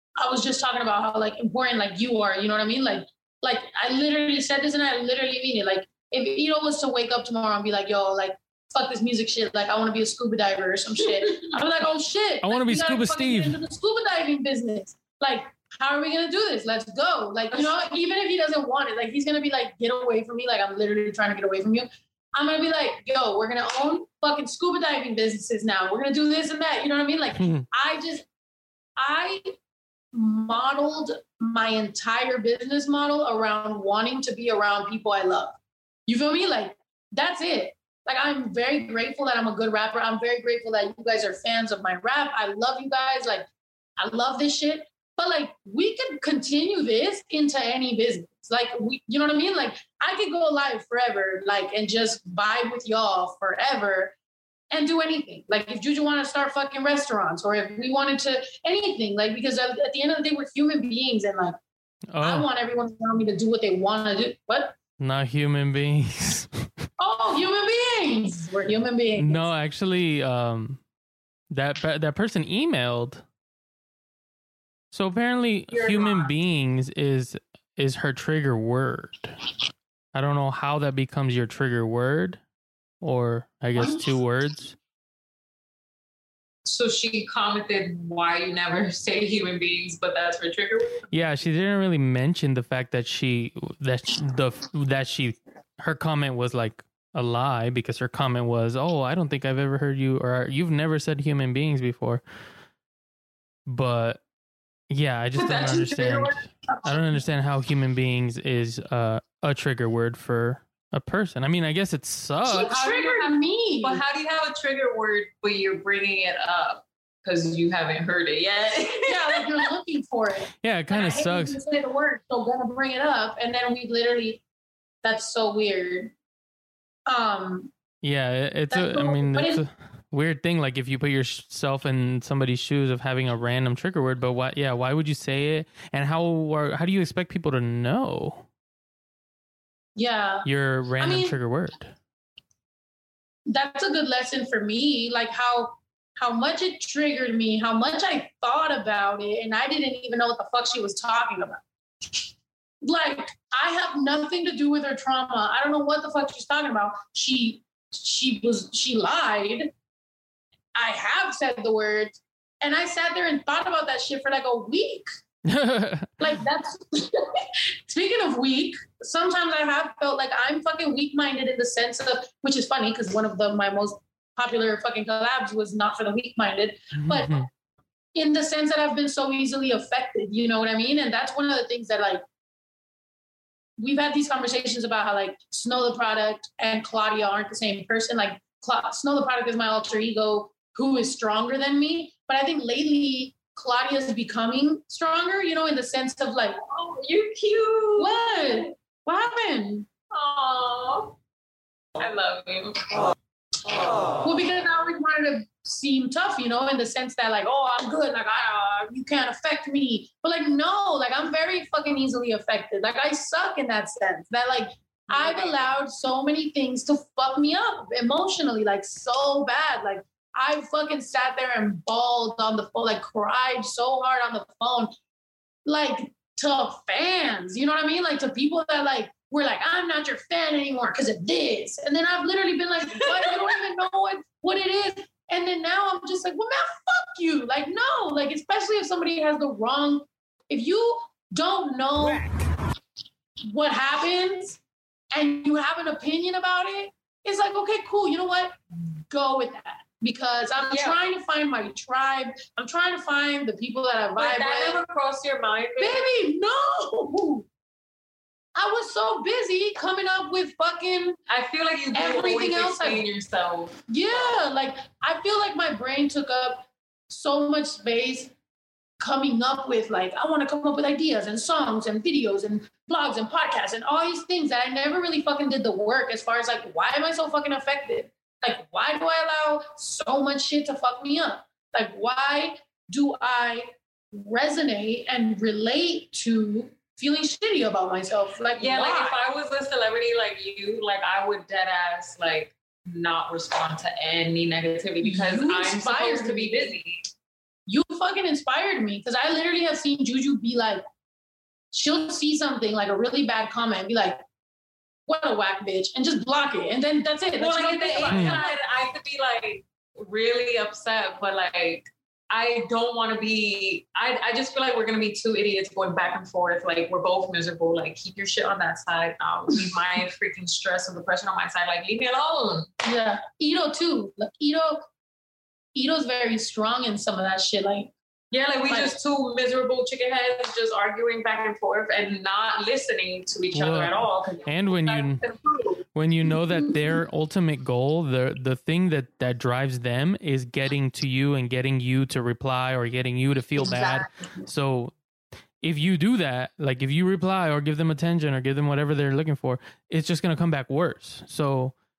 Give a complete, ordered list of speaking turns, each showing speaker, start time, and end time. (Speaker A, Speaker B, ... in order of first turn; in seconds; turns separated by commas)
Speaker A: 0.2-28.2, Speaker B: 12.4-13.6, Speaker C: 17.5-17.8, Speaker B: 27.4-27.7, Speaker A: 29.0-29.5, Speaker A: 30.1-35.5, Speaker A: 36.1-43.5, Speaker A: 44.0-54.1, Speaker A: 54.7-61.6, Speaker B: 62.1-62.5, Speaker A: 62.2-64.7, Speaker B: 65.0-66.7, Speaker A: 67.0-69.5, Speaker B: 69.2-70.8, Speaker B: 71.5-73.2, Speaker B: 74.9-79.3, Speaker A: 75.7-76.3, Speaker B: 80.1-82.4, Speaker B: 83.0-84.8, Speaker C: 86.6-91.1, Speaker B: 91.1-102.2, Speaker B: 103.7-104.2, Speaker B: 104.9-112.7, Speaker C: 105.3-106.4, Speaker A: 112.4-114.0, Speaker C: 112.5-119.6, Speaker A: 119.1-124.4, Speaker B: 120.6-121.6, Speaker A: 125.0-126.1, Speaker A: 127.1-127.7, Speaker B: 128.0-138.4, Speaker A: 128.7-129.6, Speaker A: 139.9-140.5, Speaker B: 140.4-141.9, Speaker A: 141.0-141.3, Speaker A: 143.4-152.2, Speaker A: 152.8-159.7, Speaker A: 160.8-165.1, Speaker B: 165.4-166.3, Speaker A: 166.2-177.5, Speaker B: 176.9-177.5, Speaker A: 178.1-182.2, Speaker A: 183.8-196.6, Speaker C: 196.7-198.7, Speaker A: 198.0-199.9, Speaker C: 200.1-201.1, Speaker C: 202.0-203.1, Speaker A: 204.2-224.9, Speaker C: 215.1-215.7, Speaker A: 225.7-242.3, Speaker C: 233.0-233.3, Speaker A: 243.5-244.6, Speaker A: 245.1-248.6, Speaker A: 249.1-254.8, Speaker C: 250.7-251.0, Speaker C: 254.2-256.1, Speaker A: 255.8-257.4, Speaker A: 258.5-261.2, Speaker C: 261.3-264.4, Speaker A: 261.9-263.0, Speaker A: 263.9-268.3, Speaker A: 269.0-289.2, Speaker C: 288.6-297.0, Speaker A: 295.0-296.7, Speaker A: 297.7-300.8, Speaker A: 301.7-304.2, Speaker A: 305.1-308.6, Speaker C: 307.4-322.7, Speaker B: 308.1-308.4, Speaker A: 322.8-324.8, Speaker A: 325.7-327.9, Speaker C: 328.3-335.8, Speaker A: 328.7-328.9, Speaker B: 333.5-335.2, Speaker B: 335.9-344.9, Speaker A: 343.6-344.0, Speaker B: 345.6-351.7